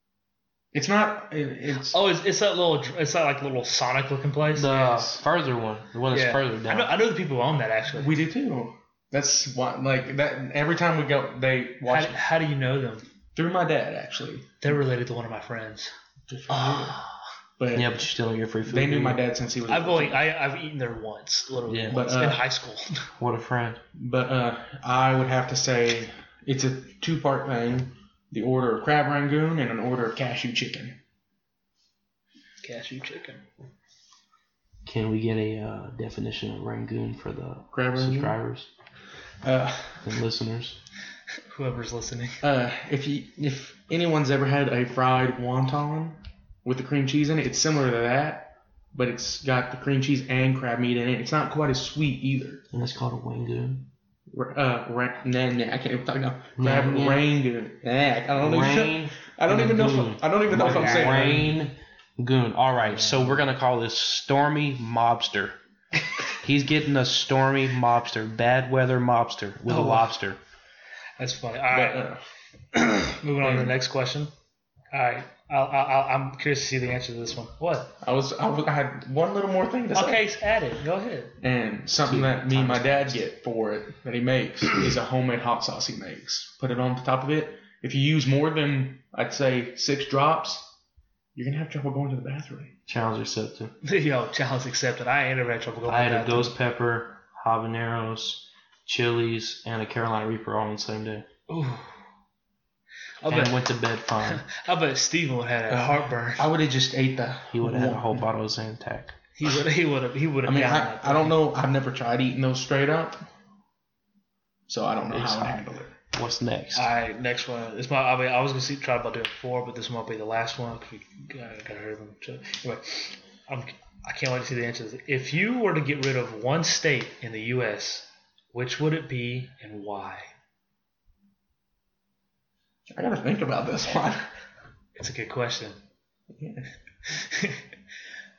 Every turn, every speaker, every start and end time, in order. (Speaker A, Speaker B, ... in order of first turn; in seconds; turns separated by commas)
Speaker A: 0.7-2.0, Speaker B: 1.9-5.2, Speaker C: 4.5-6.9, Speaker B: 6.1-8.1, Speaker A: 8.0-12.2, Speaker B: 11.8-13.1, Speaker A: 13.3-14.6, Speaker B: 14.6-15.9, Speaker A: 16.3-17.0, Speaker B: 16.5-17.2, Speaker A: 17.6-18.0, Speaker C: 17.7-19.2, Speaker A: 18.6-20.2, Speaker B: 19.7-23.1, Speaker C: 21.6-22.0, Speaker A: 21.9-22.4, Speaker C: 23.2-23.8, Speaker A: 23.9-31.0, Speaker B: 32.6-33.4, Speaker C: 34.8-38.7, Speaker A: 37.7-38.4, Speaker A: 39.4-40.1, Speaker C: 40.0-40.8, Speaker B: 41.5-42.4, Speaker A: 42.4-52.6, Speaker C: 52.7-53.9, Speaker A: 54.3-61.5, Speaker C: 56.6-57.2, Speaker C: 58.4-65.6, Speaker B: 60.5-61.3, Speaker C: 66.4-70.4, Speaker B: 69.7-70.1, Speaker B: 71.2-72.1, Speaker A: 71.7-72.2, Speaker B: 72.7-74.3, Speaker A: 73.4-73.7, Speaker B: 74.9-77.9, Speaker A: 78.0-80.2, Speaker B: 79.9-81.3, Speaker A: 81.4-90.7, Speaker C: 82.0-83.2, Speaker A: 91.3-92.7, Speaker C: 92.9-93.7, Speaker B: 93.8-96.5, Speaker C: 95.9-101.2, Speaker B: 101.5-101.9, Speaker B: 103.2-103.6, Speaker C: 103.2-104.4, Speaker B: 104.2-106.5, Speaker A: 105.7-108.3, Speaker C: 107.5-109.2, Speaker B: 109.4-111.3, Speaker A: 110.4-113.2, Speaker A: 114.7-116.0, Speaker C: 115.1-116.9, Speaker B: 116.7-130.3, Speaker A: 132.9-134.3, Speaker B: 134.9-135.8, Speaker A: 136.4-136.7, Speaker B: 137.1-137.6